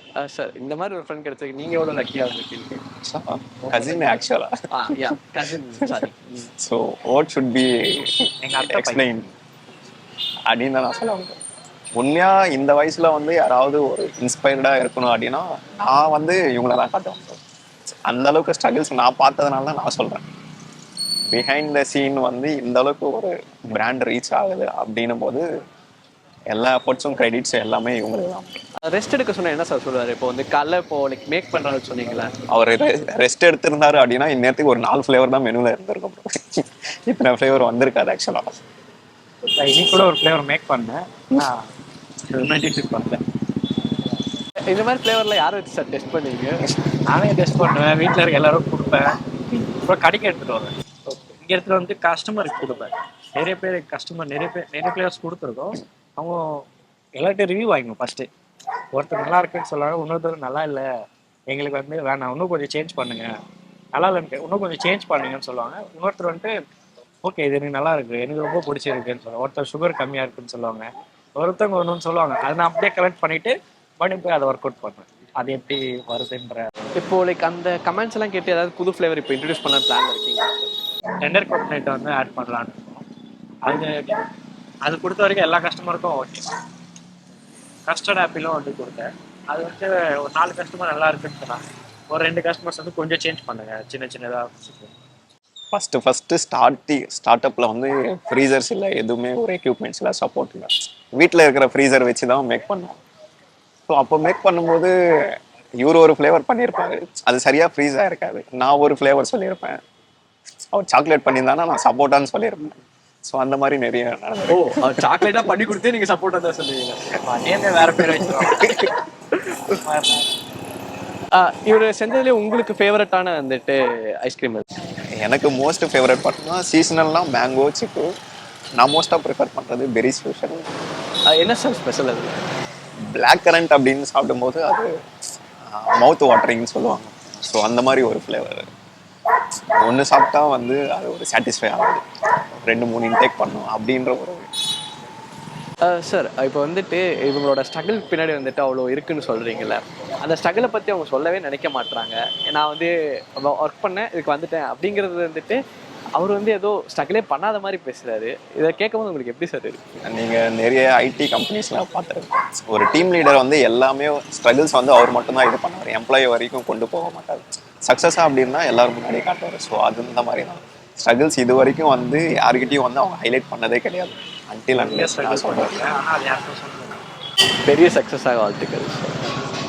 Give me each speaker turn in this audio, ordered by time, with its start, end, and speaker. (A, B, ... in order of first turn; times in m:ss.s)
0:00.2-0:02.8 A
0:03.0-0:05.1 B
0:03.6-0:04.2 C
0:04.7-0:06.5 A
0:05.8-0:09.3 B
0:08.4-0:09.3 C
0:10.5-0:11.4 B
0:12.0-0:17.4 B
0:18.1-0:20.2 B
0:21.3-0:25.5 B
0:26.5-0:28.6 B
0:28.8-0:32.3 A
0:32.5-0:38.5 B
0:39.4-0:41.6 C
0:42.3-0:43.2 C
0:44.7-0:46.6 A
0:47.1-0:56.6 C
0:57.2-0:58.3 C
0:58.9-1:00.9 C
1:01.5-1:03.3 C
1:04.0-1:06.5 C
1:07.2-1:16.8 C
1:17.0-1:20.5 A
1:21.2-1:23.0 C
1:23.6-1:24.3 C
1:24.8-1:26.5 C
1:27.9-1:34.9 C
1:35.7-1:43.0 B
1:43.9-1:44.9 B
1:45.8-1:49.8 B
1:50.7-1:55.3 B
1:54.5-1:57.1 A
1:57.2-1:58.8 C
1:58.4-1:58.8 B
1:58.6-1:58.9 A
1:59.7-2:00.3 C
2:01.4-2:04.6 A
2:05.2-2:08.1 B
2:08.8-2:10.6 B
2:11.3-2:12.4 A
2:13.0-2:14.9 B
2:15.7-2:18.7 B
2:19.8-2:24.5 B
2:25.8-2:35.6 A
2:36.2-2:39.8 A
2:40.0-2:56.0 B
2:54.8-2:57.0 C
2:57.6-2:59.3 A